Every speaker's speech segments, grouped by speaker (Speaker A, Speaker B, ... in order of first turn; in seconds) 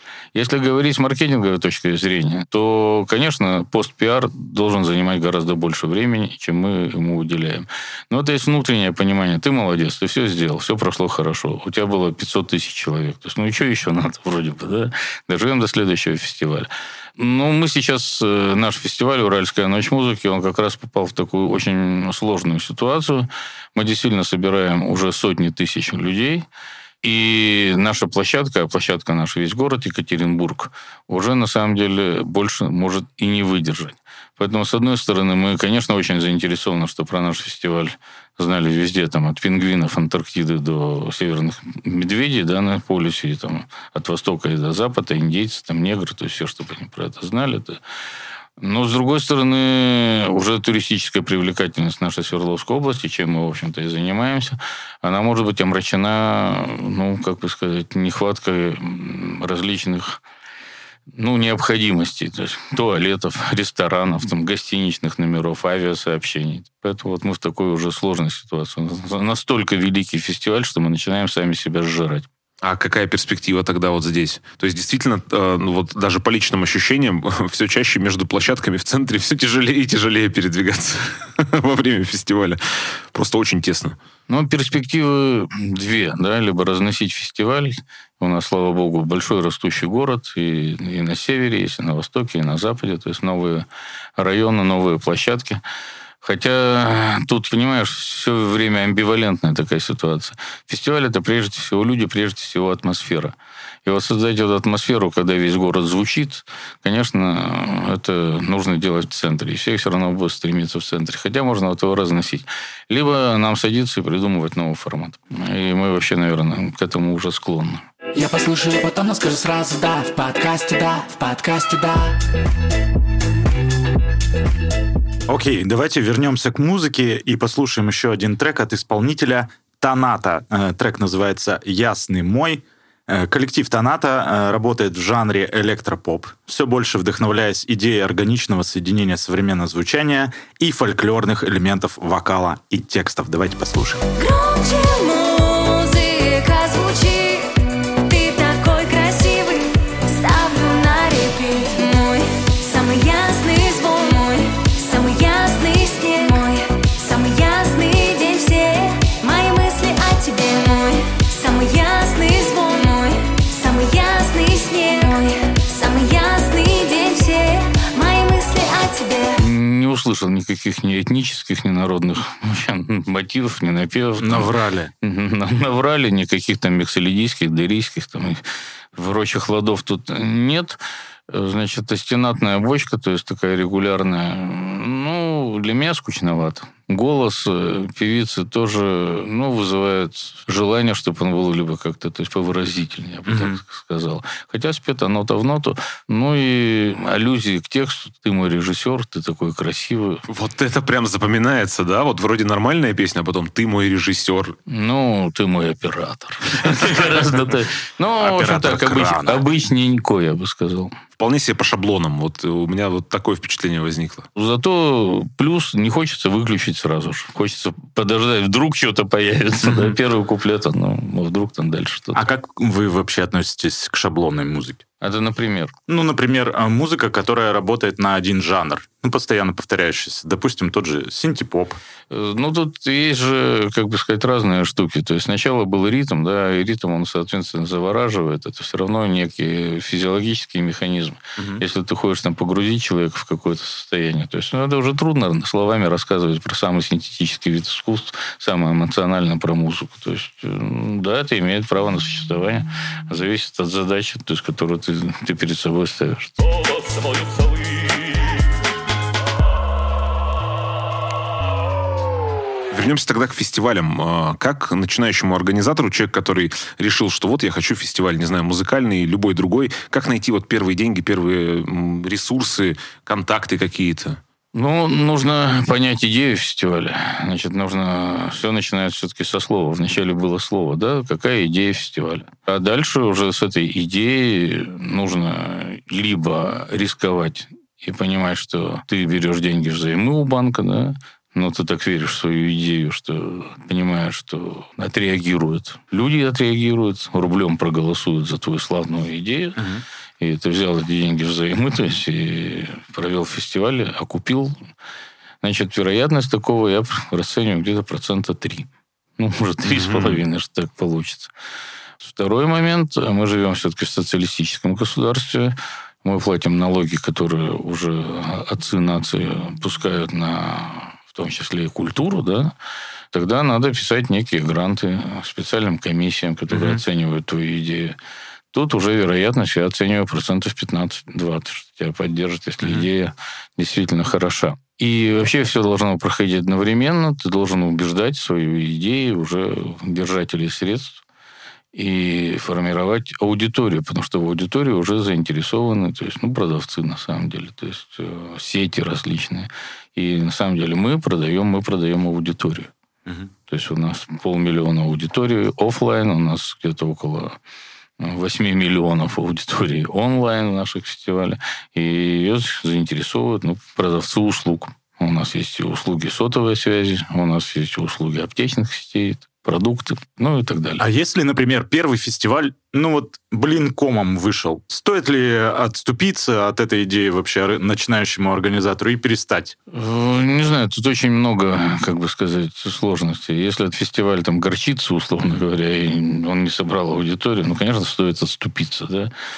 Speaker A: 0.3-26.5, 27.0-47.8, 48.6-60.2, 61.1-72.3, 84.3-93.7, 94.2-95.6, 96.2-103.3, 103.9-117.8, 169.4-174.5, 175.0-178.4, 178.9-180.8, 181.3-200.2, 204.7-210.9, 214.3-222.2, 225.0-225.7, 232.1-256.4, 274.5-299.6, 300.2-304.6, 305.4-308.7, 309.2-311.3, 312.0-322.5, 323.1-328.0, 328.5-341.0, 341.7-352.7, 353.5-357.4, 358.0-370.8, 379.7-389.1
Speaker B: 72.6-84.0, 200.3-204.6, 211.2-214.3, 262.7-274.2, 309.7-310.2
Speaker C: 118.1-122.2
Speaker D: 125.3-144.1, 174.2-174.9, 193.3-193.6, 208.2-209.4, 219.6-220.0, 222.2-224.8, 225.9-231.8, 241.4-241.6, 299.6-299.8, 326.5-326.8, 332.6-332.9, 370.8-379.6
Speaker E: 144.2-169.4